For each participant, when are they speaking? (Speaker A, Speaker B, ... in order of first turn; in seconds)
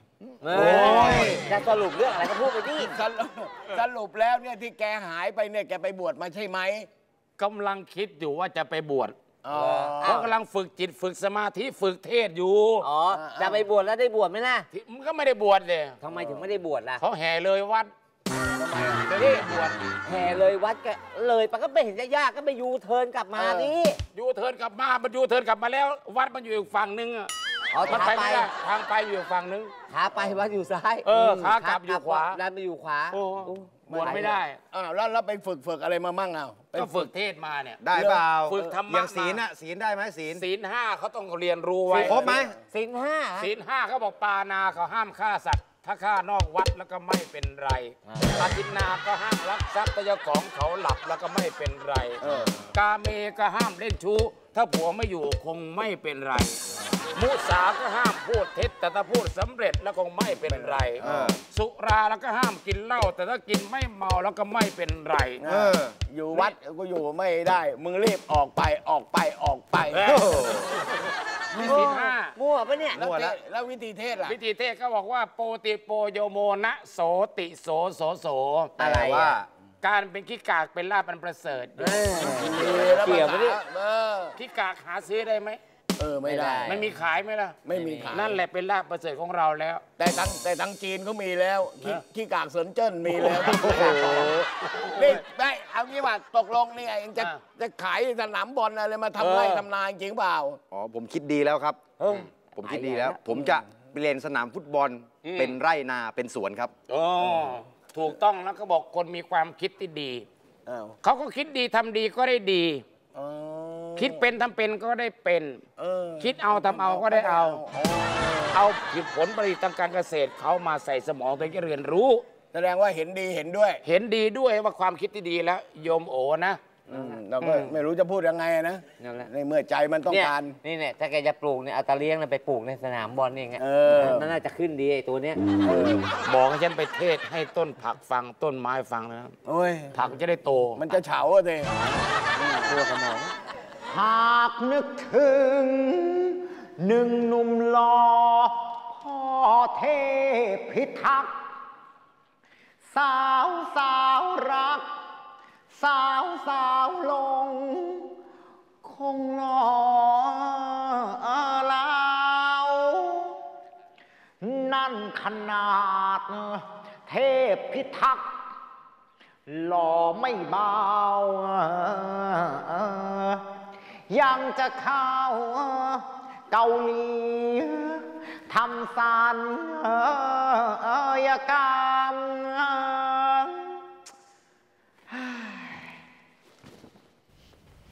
Speaker A: 0.4-2.9, 10.0-10.4, 12.8-14.7, 16.0-17.0, 20.1-24.0, 27.7-28.5, 29.9-34.4, 42.7-43.5, 48.1-48.4, 71.6-73.0, 78.8-79.3, 81.8-83.6, 86.2-86.9, 87.7-88.2, 93.7-94.1, 102.0-103.2, 126.9-127.2, 129.0-129.3, 130.1-135.8, 142.7-143.3
Speaker B: 0.5-1.5, 2.8-6.9, 9.4-10.3, 13.1-13.6, 16.1-16.4, 18.4-19.1, 23.4-23.7, 33.9-37.0, 37.9-38.8, 41.9-42.6, 52.2-52.6, 60.5-61.3, 65.4-70.2, 71.6-71.8, 72.9-74.4, 81.9-84.3, 86.0-86.7, 87.7-88.4, 90.0-100.6, 110.7-111.0, 113.2-114.2, 115.8-118.6, 122.5-123.8, 126.9-130.6, 133.6-134.3, 135.6-136.1, 139.5-139.9, 140.8-142.6
Speaker C: 0.5-1.4, 37.8-40.4, 42.0-42.5, 61.0-61.4, 65.5-66.0, 70.1-70.7, 73.0-73.3, 78.8-79.5, 100.7-106.7
Speaker D: 7.4-12.8, 14.7-16.0, 17.0-17.9, 19.1-19.8, 24.1-27.3, 27.9-29.7, 31.1-32.4, 33.1-34.6, 36.7-37.8, 38.5-39.4, 40.4-42.4, 43.4-52.2, 52.7-56.6, 57.2-65.4, 69.9-70.4, 71.6-72.3, 74.2-78.8, 79.8-82.0, 84.4-85.6, 86.7-89.8, 93.5-95.2, 99.2-99.7, 105.2-105.6, 106.9-110.3, 111.0-112.8, 114.0-115.6, 116.2-117.6, 118.5-122.2, 123.8-126.8, 127.4-127.8, 136.2-139.3, 139.9-140.8
Speaker E: 143.9-151.4, 152.9-154.9, 155.7-158.1, 158.8-163.4, 164.4-168.5, 169.5-173.4, 174.1-183.8, 185.1-185.9